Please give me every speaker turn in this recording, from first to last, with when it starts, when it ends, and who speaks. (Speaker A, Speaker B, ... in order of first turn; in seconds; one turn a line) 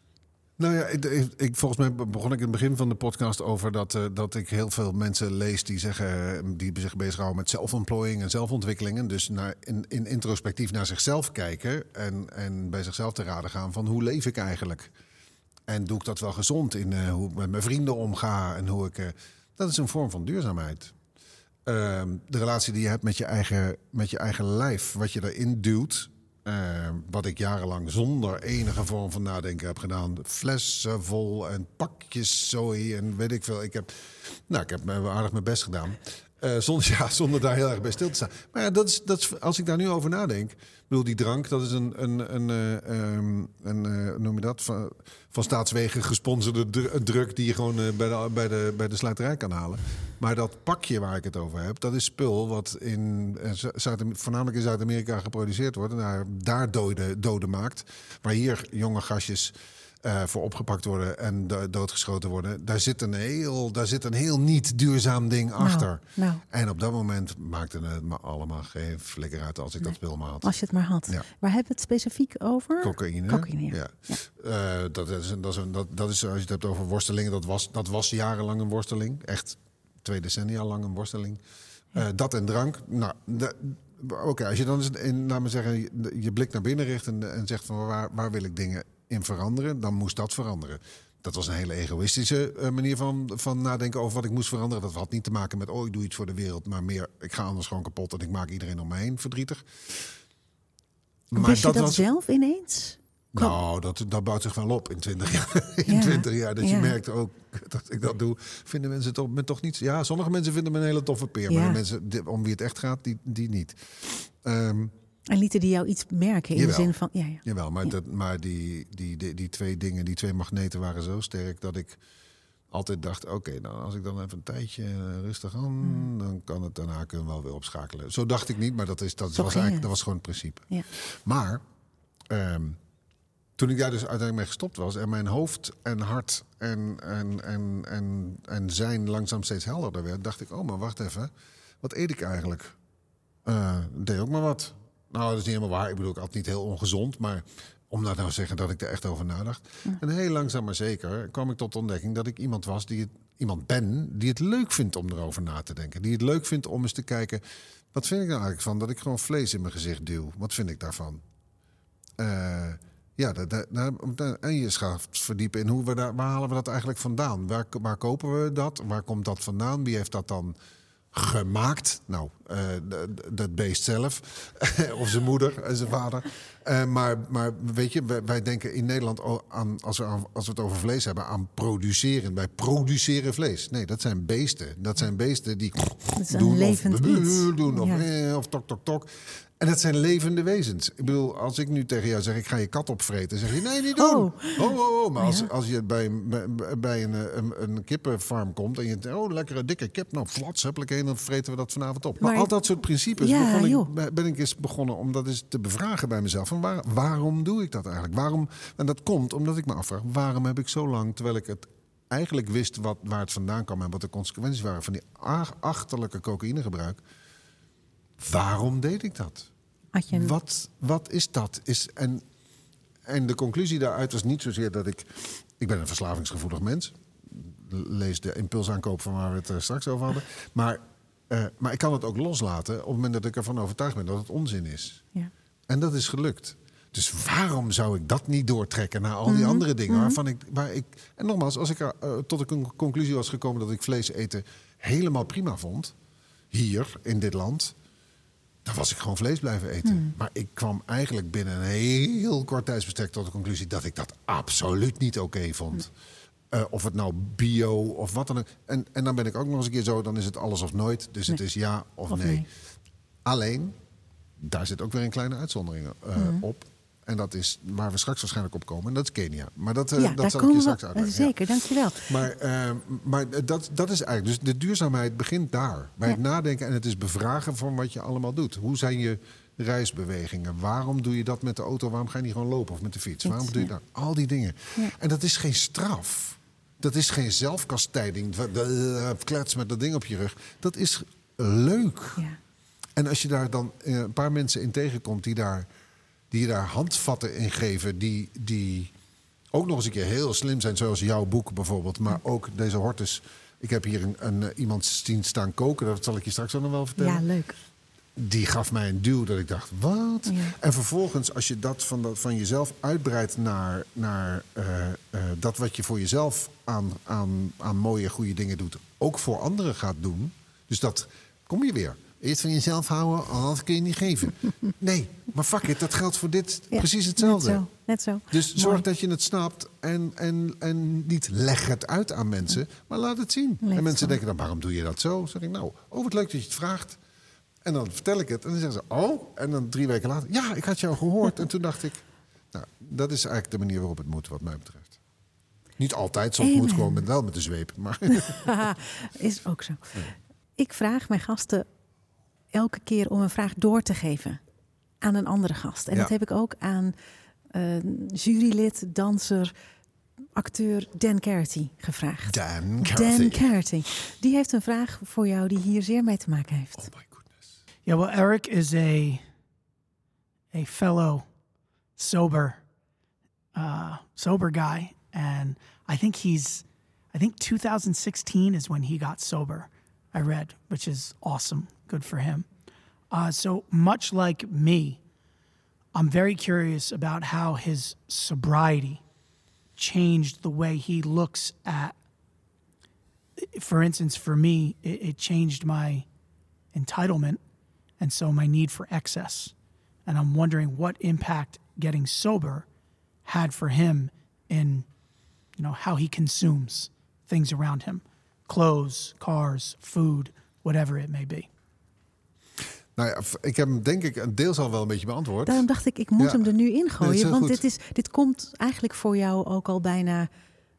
Speaker A: 0.6-14.9
Speaker A: 15.7-20.9
Speaker A: 21.7-70.5
Speaker B: 65.6-66.4
Speaker B: 69.8-74.2
Speaker A: 72.8-81.4
Speaker A: 81.9-100.1
Speaker A: 101.3-102.1
Speaker B: 101.3-103.6
Speaker A: 103.3-114.9
Speaker B: 105.9-107.0
Speaker B: 111.5-111.8
Speaker B: 115.3-117.9
Speaker A: 116.5-122.0
Speaker A: 122.7-131.6
Speaker B: 129.4-129.9
Speaker A: 132.3-132.8
Speaker A: 133.6-142.8
Speaker A: 143.4-157.4
Speaker A: 157.9-161.2
Speaker A: 162.2-170.6
Speaker A: 171.1-217.0
Speaker B: 186.2-188.0
Speaker B: 194.0-195.5
Speaker B: 202.2-202.5
Speaker B: 203.2-203.9
Speaker A: 218.2-219.5
Speaker B: 219.9-220.3
Speaker A: 220.1-222.2
Speaker A: 223.1-235.0
Speaker A: 235.7-245.9
Speaker B: 239.3-240.2
Speaker A: 246.5-247.8
Speaker A: 248.7-255.9
Speaker B: 249.8-250.1
Speaker A: 256.5-262.5
Speaker B: 262.1-262.4
Speaker A: 263.2-263.8
Speaker A: 264.4-271.4
Speaker B: 266.2-266.4
Speaker B: 270.0-272.2
Speaker A: 272.1-292.2
Speaker B: 283.2-283.7
Speaker A: 293.0-295.7
Speaker A: 296.3-298.9
Speaker A: 299.5-307.2
Speaker B: 307.0-307.6
Speaker A: 308.2-327.6
Speaker B: 310.3-310.6
Speaker B: 326.7-328.8
Speaker A: 328.3-337.0
Speaker B: 333.6-334.2
Speaker A: 337.6-345.0
Speaker A: 345.8-348.7
Speaker B: 346.4-347.0
Speaker B: 348.1-351.7
Speaker B: 352.5-354.4
Speaker B: 355.0-356.9
Speaker B: 357.5-359.5
Speaker B: 360.4-366.9
Speaker A: 362.3-363.5
Speaker A: 366.8-367.4
Speaker C: 367.9-369.2
Speaker C: 370.5-371.2
Speaker C: 372.0-372.6
Speaker C: 373.6-382.5
Speaker C: 383.1-385.0
Speaker C: 385.9-389.0
Speaker C: 389.8-391.9
Speaker C: 393.4-396.1
Speaker C: 396.7-397.4
Speaker C: 398.0-399.5
Speaker C: 400.1-402.7
Speaker C: 403.2-404.9
Speaker C: 405.6-411.5
Speaker A: 413.0-415.6
Speaker B: 415.5-420.3
Speaker A: 416.2-417.6